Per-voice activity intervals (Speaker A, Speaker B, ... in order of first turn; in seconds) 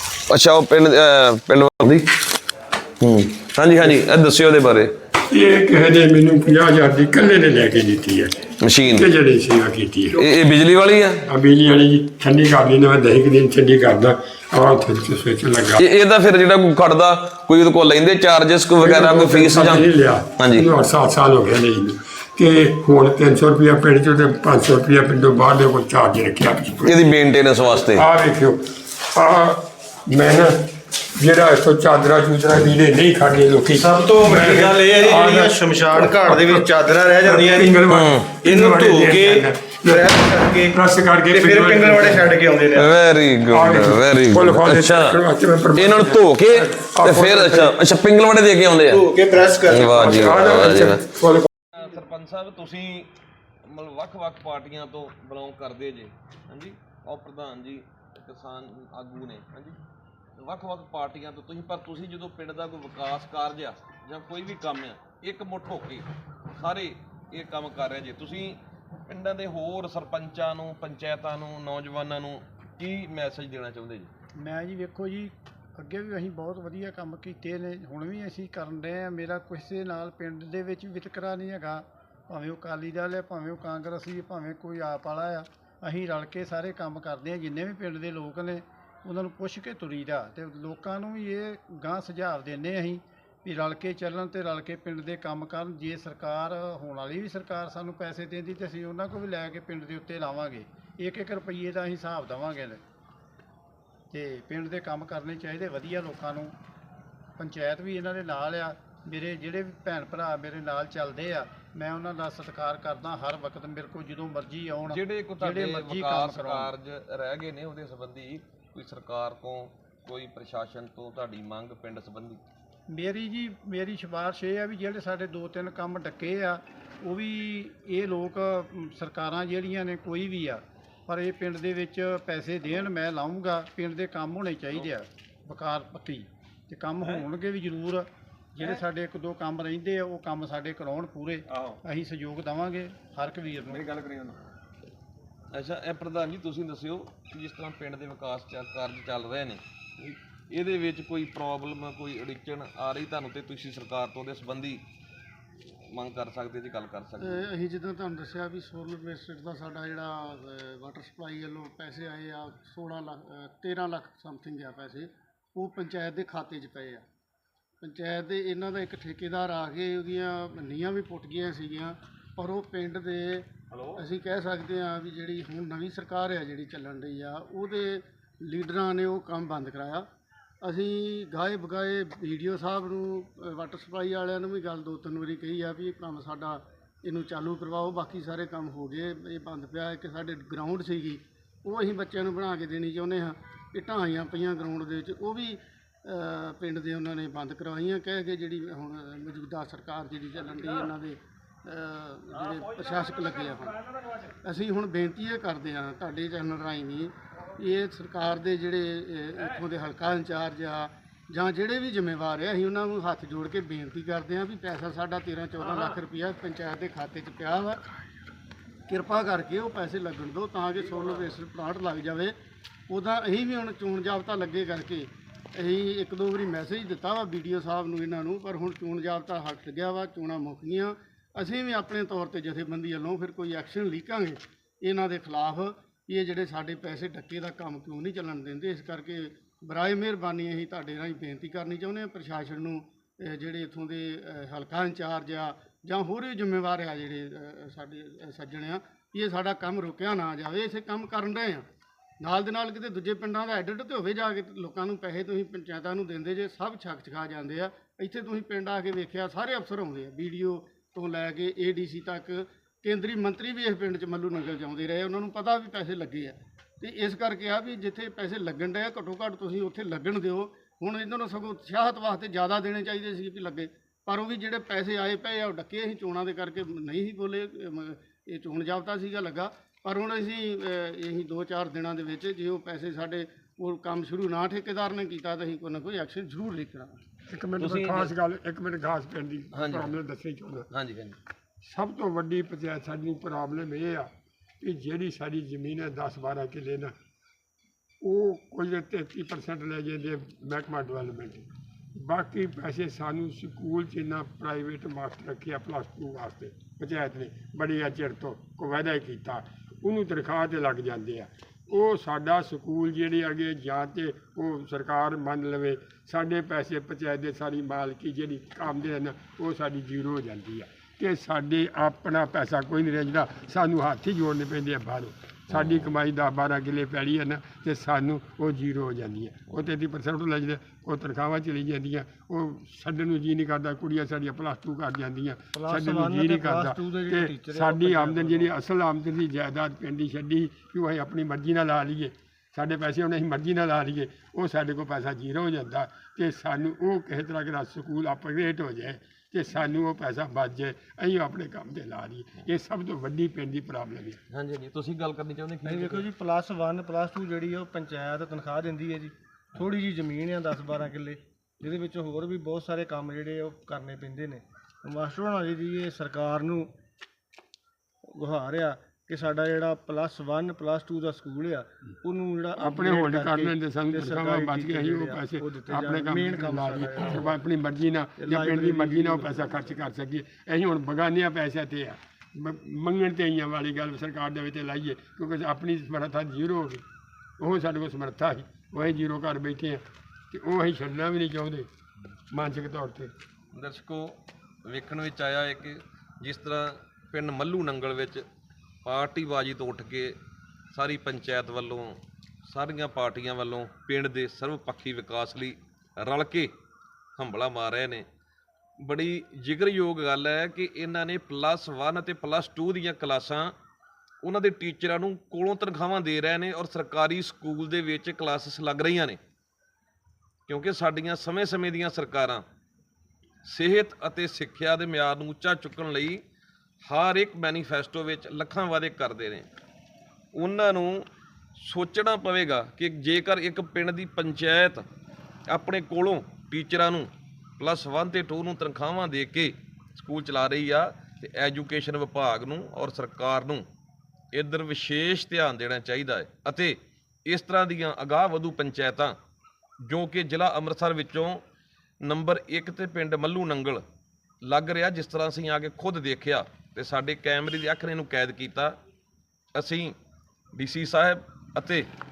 Speaker A: 0.3-2.0, 3.0-4.9, 8.6-9.1, 10.1-11.2, 15.8-19.9, 20.4-20.7, 26.9-28.0, 37.9-38.3, 42.7-45.2, 45.8-49.1, 49.6-51.0, 51.7-53.1, 53.7-59.8, 60.4-74.1, 114.9-122.4, 143.8-144.3, 145.5-154.8, 155.9-157.4, 173.7-174.0, 287.6-288.1, 289.5-289.9, 290.7-291.1, 325.5-325.8, 354.3-356.1, 393.5-394.1, 394.7-398.2, 398.8-400.1, 400.7-406.5, 407.2-408.1, 408.8-413.5, 414.2-419.2, 420.5-422.4, 423.4-426.2, 426.9-429.5, 430.3-431.0, 431.6-434.9, 435.5-443.6, 444.3-449.1, 449.8-451.4, 452.0-453.8, 454.4-458.8, 459.5-459.9, 460.5-461.9
Speaker B: 5.3-10.3, 11.3-15.8, 18.8-27.0, 27.9-30.6, 31.2-36.6, 37.2-42.4, 43.5-47.7, 49.8-51.5, 287.3-290.7, 291.6-294.1, 294.6-296.9, 298.0-301.4, 302.0-354.2, 372.6-386.8, 387.4-391.7, 392.3-393.1
Speaker C: 34.0-37.7, 38.5-39.4, 40.2-40.7, 41.8-42.8, 49.0-50.0
Speaker D: 36.0-36.6, 335.5-338.4, 355.6-366.7, 368.1-377.2, 378.2-379.4
Speaker E: 74.4-102.8, 104.1-106.5, 107.4-116.7, 122.9-144.0
Speaker F: 157.2-167.0, 167.8-180.1, 180.6-203.8, 204.4-217.8, 218.9-222.3, 222.9-251.7, 252.2-287.0